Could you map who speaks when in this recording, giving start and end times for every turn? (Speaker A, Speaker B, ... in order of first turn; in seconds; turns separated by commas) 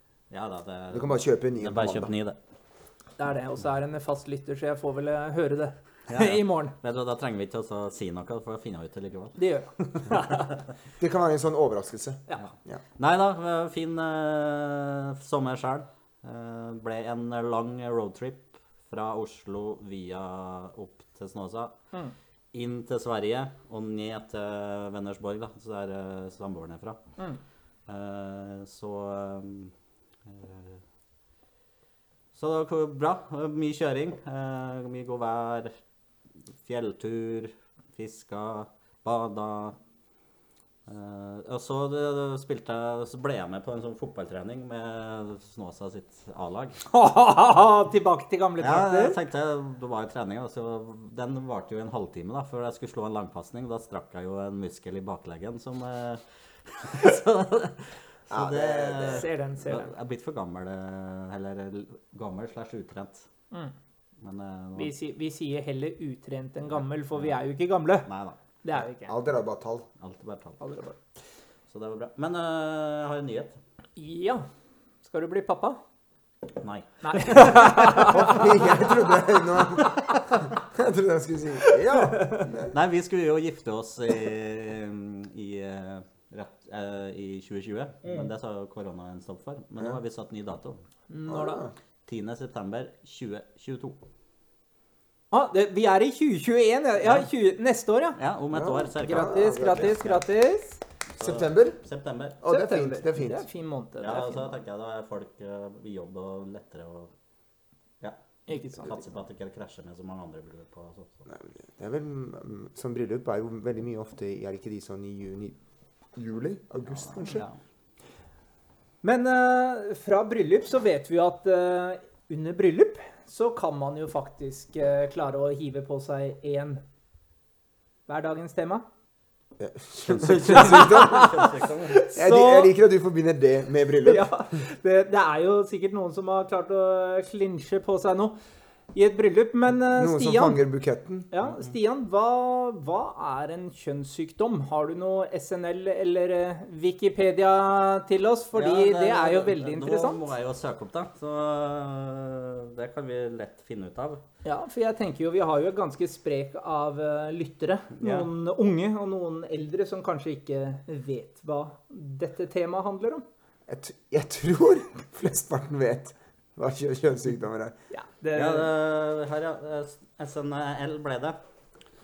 Speaker A: 0.3-2.4, Speaker B: 0.9-2.1, Speaker C: 3.2-6.8, Speaker A: 6.1-10.4, Speaker C: 9.4-10.5, Speaker B: 11.0-12.8, Speaker A: 13.0-21.8, Speaker A: 22.5-27.0, Speaker A: 27.9-29.7, Speaker A: 30.3-30.8, Speaker A: 32.3-35.7, Speaker A: 36.6-39.8, Speaker A: 40.9-46.8, Speaker C: 46.9-49.2, Speaker A: 48.6-63.3, Speaker B: 58.3-59.2, Speaker C: 59.1-59.9, Speaker A: 64.2-64.9, Speaker C: 64.8-68.1, Speaker A: 68.0-68.4, Speaker C: 68.6-69.1, Speaker B: 69.0-69.9, Speaker A: 70.0-70.6, Speaker C: 70.6-71.0, Speaker A: 71.7-73.6, Speaker C: 74.0-74.5, Speaker C: 75.0-75.8, Speaker A: 76.6-77.7, Speaker C: 77.0-78.7, Speaker B: 77.8-82.7, Speaker C: 81.6-82.5, Speaker A: 82.7-90.8, Speaker C: 91.1-91.6, Speaker B: 91.3-91.7, Speaker A: 92.0-94.0, Speaker C: 95.3-98.2, Speaker A: 98.2-100.2, Speaker B: 98.5-100.0, Speaker C: 99.0-100.8, Speaker A: 101.2-102.4, Speaker B: 101.2-101.8, Speaker B: 102.4-103.4, Speaker C: 102.5-104.6, Speaker A: 104.0-107.1, Speaker C: 108.5-109.0, Speaker A: 108.7-111.2, Speaker B: 111.3-115.6, Speaker B: 116.1-117.5, Speaker A: 116.9-117.5, Speaker C: 119.0-126.8, Speaker C: 128.1-128.8, Speaker B: 129.6-131.3, Speaker A: 130.0-132.0, Speaker C: 130.5-132.7, Speaker B: 132.1-134.4, Speaker C: 134.0-138.4, Speaker C: 138.9-140.6, Speaker B: 139.9-141.3, Speaker C: 141.3-150.2, Speaker A: 148.5-154.2, Speaker C: 154.4-163.2, Speaker A: 158.0-158.3, Speaker B: 163.7-167.7, Speaker C: 167.9-168.7, Speaker A: 168.3-171.4